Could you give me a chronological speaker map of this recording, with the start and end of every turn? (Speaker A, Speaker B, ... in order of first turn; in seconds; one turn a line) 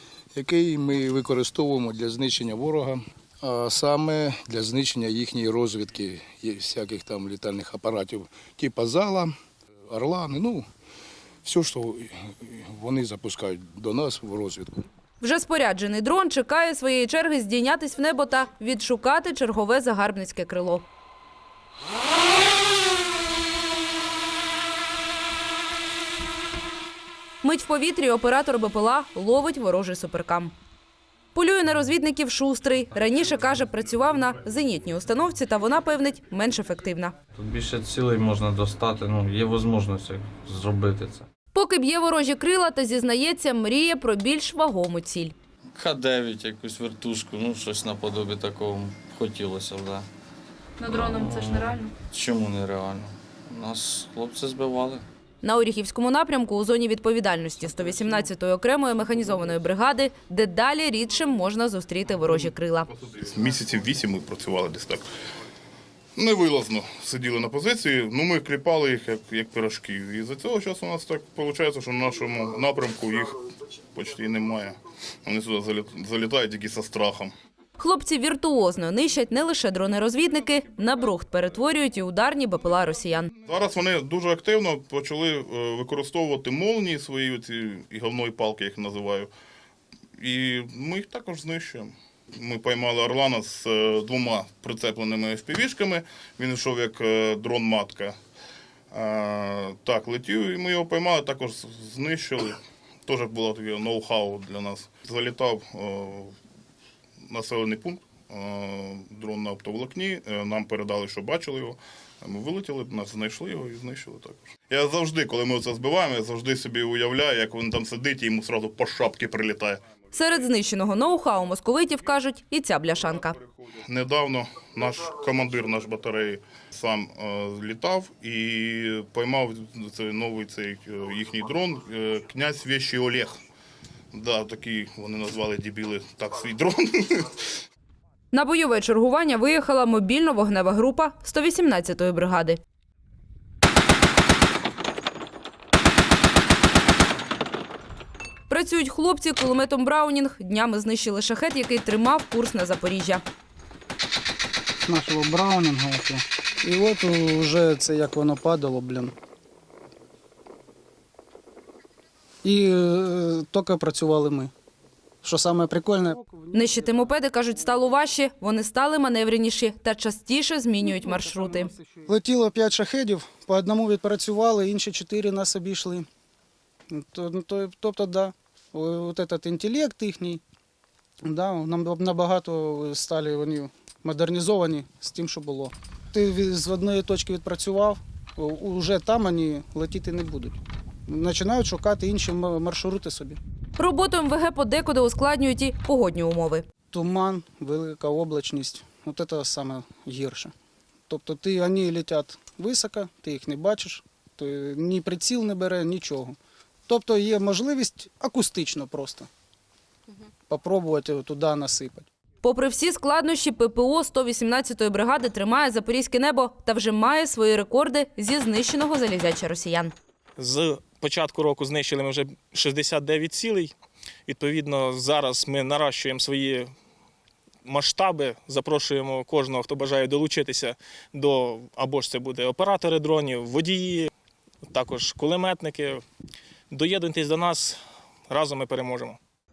Speaker A: 0.3-9.3
Speaker A: 9.9-10.6
Speaker A: 11.4-14.8
Speaker B: 15.2-20.9
Speaker B: 27.4-30.5
Speaker B: 31.3-37.1
Speaker C: 37.4-41.3
Speaker B: 41.5-45.3
Speaker C: 45.7-50.1
Speaker B: 50.8-51.9
Speaker C: 50.9-55.1
Speaker B: 55.4-62.9
Speaker D: 63.0-65.1
Speaker D: 66.2-77.3
Speaker B: 77.8-83.3
Speaker D: 83.5-89.3
Speaker D: 90.2-98.2
Speaker D: 98.9-106.3
Speaker D: 107.3-120.0
Speaker B: 120.1-123.4
Speaker D: 123.6-133.4
Speaker D: 134.1-137.4
Speaker B: 138.3-142.6
Speaker B: 148.5-153.2
Speaker E: 154.9-159.1
Speaker E: 162.4-164.5
Speaker E: 165.2-167.1
Speaker B: 166.5-171.7
Speaker E: 170.8-176.1
Speaker E: 176.9-180.4
Speaker E: 181.2-193.4
Speaker B: 193.8-196.7
Speaker E: 196.9-200.5
Speaker E: 201.1-209.3
Speaker E: 210.5-212.1
Speaker B: 212.4-219.9
Speaker F: 220.4-223.7
Speaker F: 224.3-226.7
Speaker F: 227.7-234.1
Speaker F: 234.7-236.0
Speaker F: 236.7-239.2